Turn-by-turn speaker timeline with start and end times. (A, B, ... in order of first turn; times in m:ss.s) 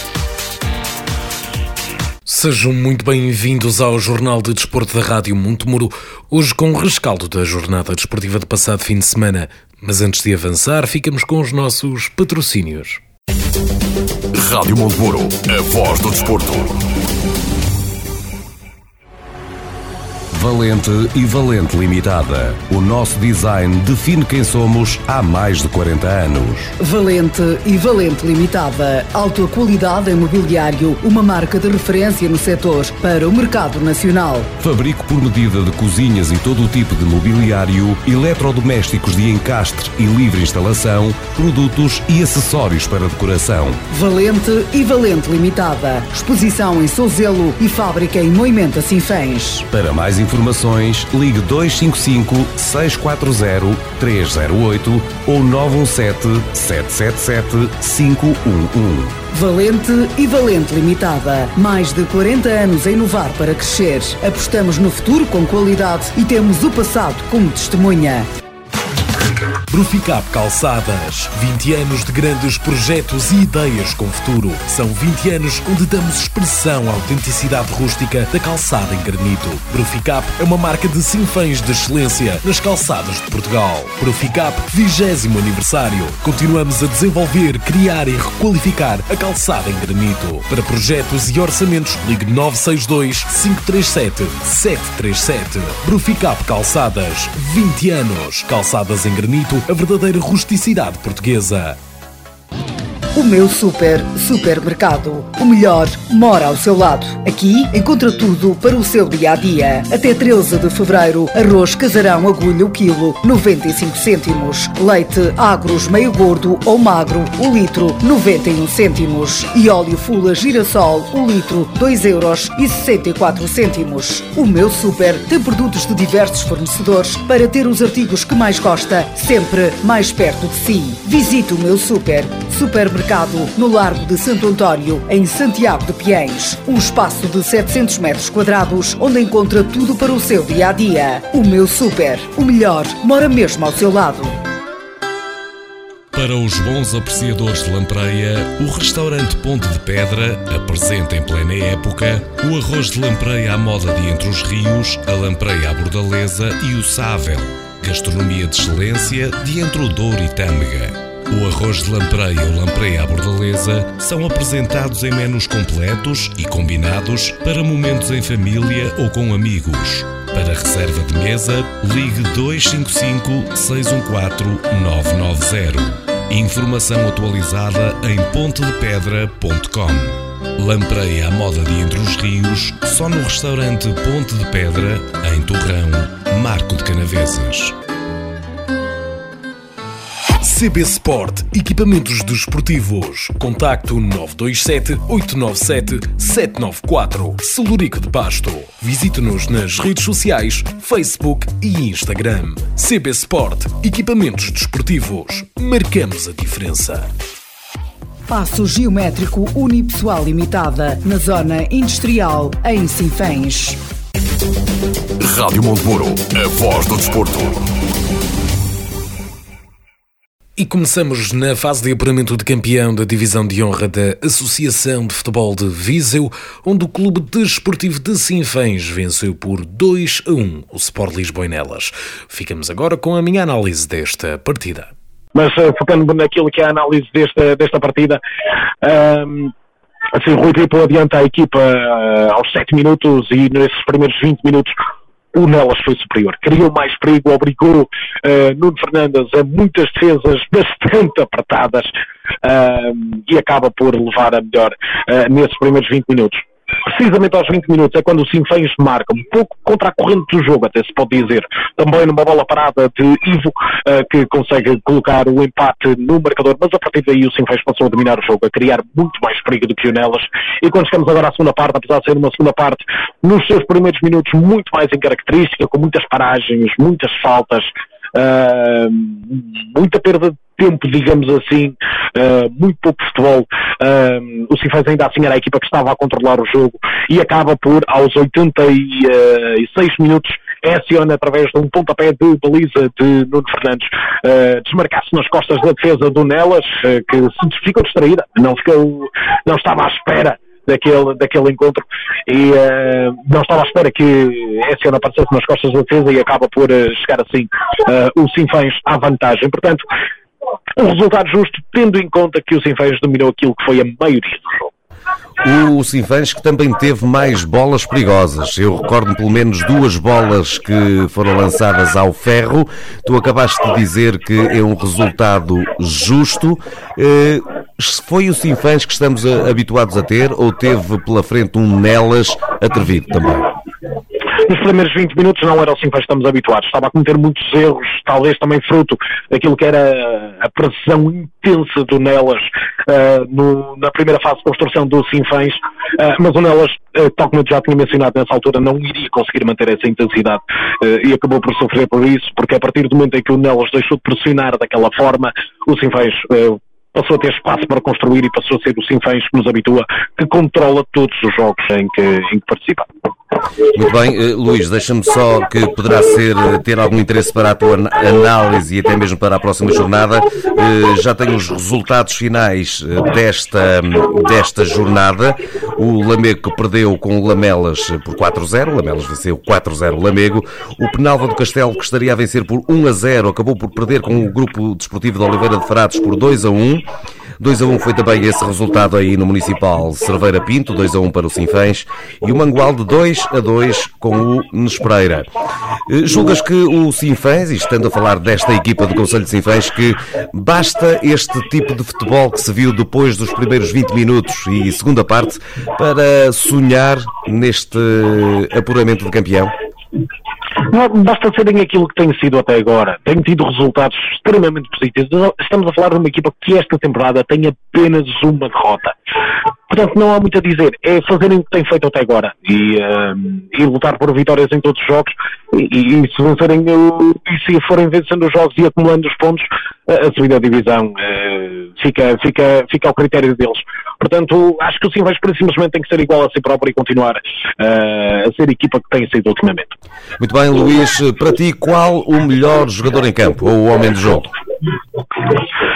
0:02.2-0:13.0 A
0:14.3-0:16.8 B
0:20.3-0:26.7 B
0:26.8-0:34.5 C
0:34.6-0:43.8 B
0:43.9-0:49.6 C
0:49.7-0:59.2 B
0:59.3-1:08.3 C
1:09.7-1:41.8 A
1:43.1-2:24.4 C
2:26.1-3:07.8 B
3:10.4-3:27.1 A
3:28.3-3:33.8 C
3:35.2-3:37.6 B
3:40.6-3:54.9 A
3:55.3-3:58.2 D
3:58.8-3:59.5 D
4:00.1-4:04.8 D
4:05.3-4:11.9 D
4:12.4-5:09.8 D
5:10.8-5:14.7 D
5:15.4-5:33.5 E
5:34.4-6:02.9 D
6:03.7-6:35.3 E
6:35.9-6:49.5 E
6:50.7-6:59.0 D
6:59.7-7:19.7 D
7:20.2-7:24.3 E